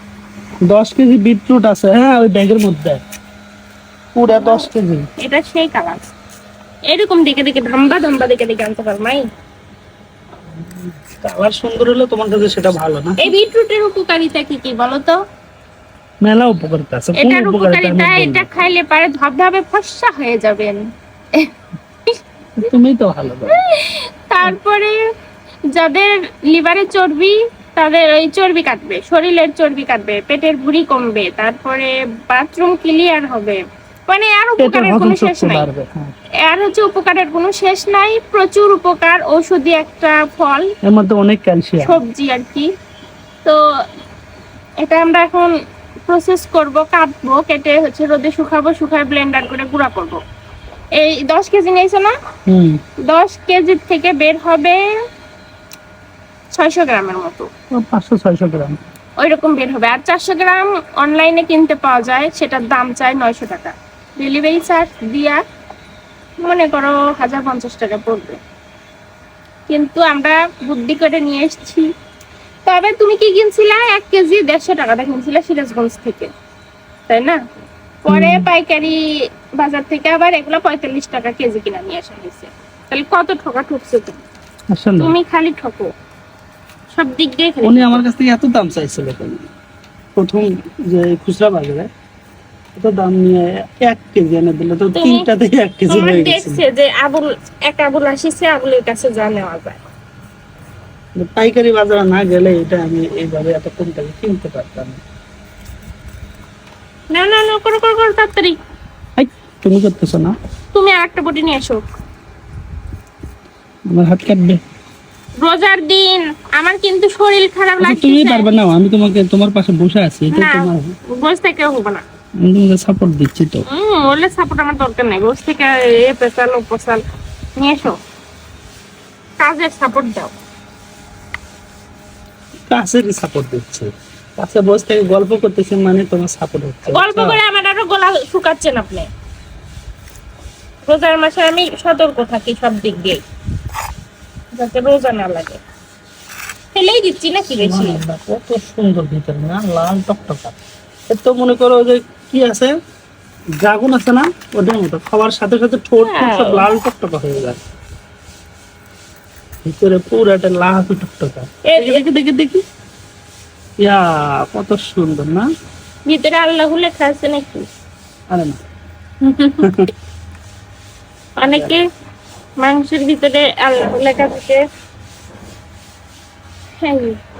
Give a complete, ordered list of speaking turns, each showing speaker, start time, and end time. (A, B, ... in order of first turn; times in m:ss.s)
0:00.7-0:03.0 A
0:04.1-0:05.0 A
0:04.3-0:04.6 B
0:05.2-0:06.0 B
0:06.9-0:09.2 B
0:10.6-0:13.3 A
0:13.2-0:15.2 B
0:16.2-0:18.5 A
0:17.1-0:20.8 B
0:22.6-0:23.6 A
0:23.5-0:25.0 B
0:25.7-0:35.7 B
0:34.6-0:36.1 A
0:36.4-0:40.7 B
0:40.8-0:42.0 A
0:41.8-0:42.7 B
0:44.8-0:45.5 B
0:46.1-0:50.2 B
0:51.0-0:52.1 B
0:52.5-0:52.8 A
0:53.1-0:54.8 B
0:56.5-0:57.5 B
0:57.7-0:58.8 A
0:59.2-1:05.4 B
1:06.4-1:08.4 B
1:09.7-1:11.9 B
1:12.6-1:16.3 B
1:17.1-1:17.4 B
1:18.0-1:19.0 B
1:18.1-1:18.5 A
1:19.6-1:24.2 B
1:24.7-1:25.2 A
1:25.0-1:25.9 B
1:26.9-1:28.0 B
1:27.6-1:29.4 A
1:30.2-1:31.9 A
1:32.8-1:36.6 A
1:34.9-1:35.3 B
1:35.9-1:39.8 B
1:41.2-1:45.0 A
1:47.1-1:48.6 B
1:49.2-1:50.3 A
1:50.7-1:51.8 B
1:53.9-1:54.6 A
1:55.4-1:58.5 B
1:57.8-2:00.9 A
2:00.3-2:02.0 B
2:02.4-2:03.6 A
2:03.7-2:07.0 B
2:07.6-2:08.0 B
2:09.4-2:10.3 B
2:12.7-2:17.4 A
2:16.9-2:19.1 B
2:20.8-2:23.2 B
2:24.5-2:25.6 B
2:26.7-2:28.0 B
2:27.5-2:30.6 A
2:31.1-2:32.7 A
2:33.6-2:37.6 A
2:36.0-2:36.6 B
2:39.6-2:42.6 A
2:41.6-2:42.0 B
2:43.8-2:45.5 A
2:46.0-2:47.7 B
2:48.3-2:48.6 A
2:49.2-2:49.6 B
2:49.6-2:49.9 A
2:51.4-2:51.8 B
2:51.4-2:51.8 A
2:52.6-2:54.6 B
2:56.8-2:57.2 B